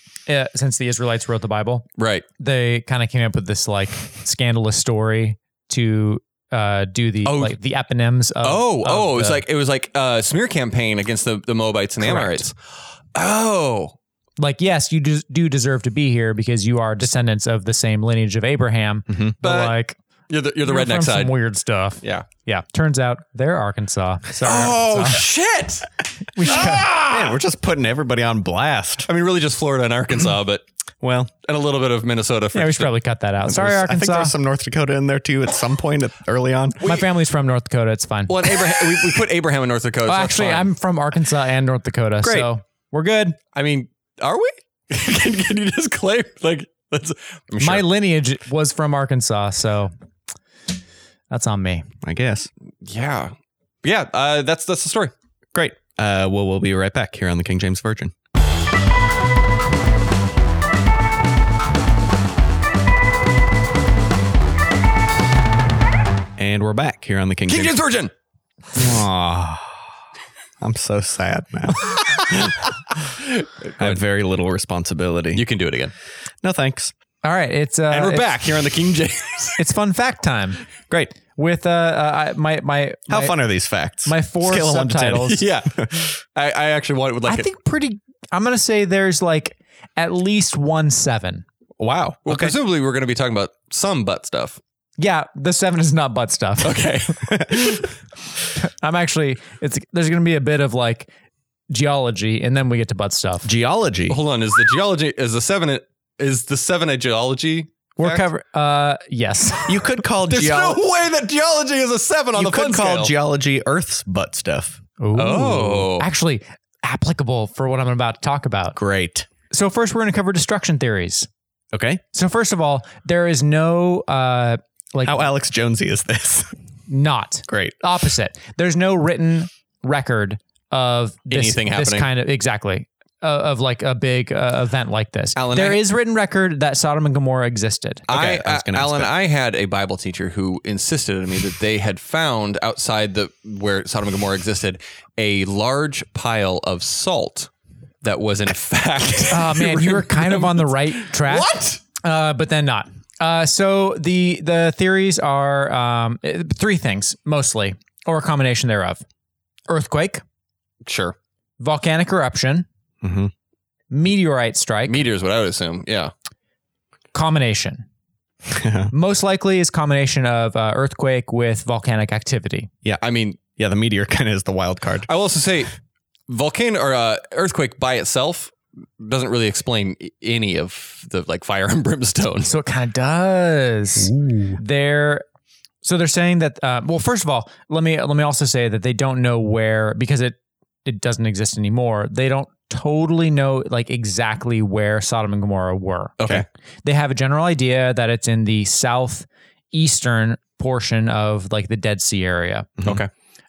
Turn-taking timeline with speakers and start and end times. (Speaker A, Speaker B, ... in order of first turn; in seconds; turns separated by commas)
Speaker A: 0.3-1.9, Speaker B: 2.0-2.2, Speaker A: 2.4-9.4, Speaker B: 7.2-7.5, Speaker B: 8.4-12.5, Speaker A: 12.0-12.5, Speaker B: 13.1-13.9, Speaker A: 14.4-20.0, Speaker C: 19.1-19.3, Speaker B: 19.4-19.7, Speaker B: 20.3-21.3, Speaker A: 20.6-25.2, Speaker B: 24.4-25.9, Speaker A: 26.3-26.9, Speaker B: 26.4-27.4, Speaker C: 26.5-29.1, Speaker B: 29.1-30.6, Speaker C: 31.0-31.3, Speaker B: 31.4-32.9, Speaker A: 32.5-34.3, Speaker C: 33.4-36.8, Speaker A: 36.8-38.5, Speaker B: 38.3-40.7, Speaker A: 40.0-43.4, Speaker C: 42.2-42.5, Speaker B: 43.5-47.9, Speaker A: 47.6-49.9, Speaker A: 51.3-51.9, Speaker C: 52.0-52.5, Speaker B: 52.8-55.1, Speaker C: 55.5-58.1, Speaker C: 66.4-67.8, Speaker B: 67.5-68.1, Speaker C: 68.7-69.9, Speaker C: 70.6-72.6, Speaker B: 71.9-72.5, Speaker B: 73.2-74.0, Speaker C: 73.8-75.4, Speaker B: 75.3-75.9, Speaker C: 76.4-76.9, Speaker A: 77.2-78.3, Speaker B: 77.9-79.6, Speaker A: 79.6-80.6, Speaker A: 81.3-83.4, Speaker C: 83.1-86.1, Speaker A: 84.0-85.4, Speaker B: 85.3-87.5, Speaker A: 87.3-91.5, Speaker C: 91.8-92.5, Speaker B: 92.2-94.6, Speaker A: 95.0-96.9, Speaker B: 96.6-97.9, Speaker A: 98.5-101.1, Speaker A: 101.7-103.5, Speaker C: 103.4-104.2, Speaker B: 104.1-108.2, Speaker A: 108.0-109.8, Speaker C: 109.7-110.8, Speaker B: 110.3-113.1, Speaker C: 112.3-114.8, Speaker A: 115.0-118.8, Speaker B: 115.1-116.1, Speaker C: 118.8-119.3, Speaker A: 119.5-121.3, Speaker C: 121.7-122.0, Speaker A: 122.1-125.2, Speaker C: 125.0-126.5, Speaker A: 126.9-138.1, Speaker C: 127.5-127.7, Speaker B: 131.3-132.1, Speaker B: 135.3-135.8, Speaker C: 138.1-139.1, Speaker B: 138.1-147.5, Speaker B: 148.0-151.8, Speaker A: 149.3-159.0, Speaker A: 159.7-160.2, Speaker B: 160.8-161.2, Speaker A: 161.6-162.7, Speaker C: 163.0-163.3, Speaker A: 163.9-165.0, Speaker B: 164.9-166.1, Speaker A: 167.1-167.8, Speaker C: 168.5-168.9, Speaker A: 168.9-172.7, Speaker B: 173.0-173.4, Speaker C: 173.6-175.1, Speaker B: 175.1-175.7, Speaker B: 176.3-182.5, Speaker A: 182.4-185.2, Speaker A: 185.8-196.2, Speaker B: 196.2-196.4, Speaker A: 196.8-202.7, Speaker C: 202.8-203.0, Speaker B: 202.8-203.1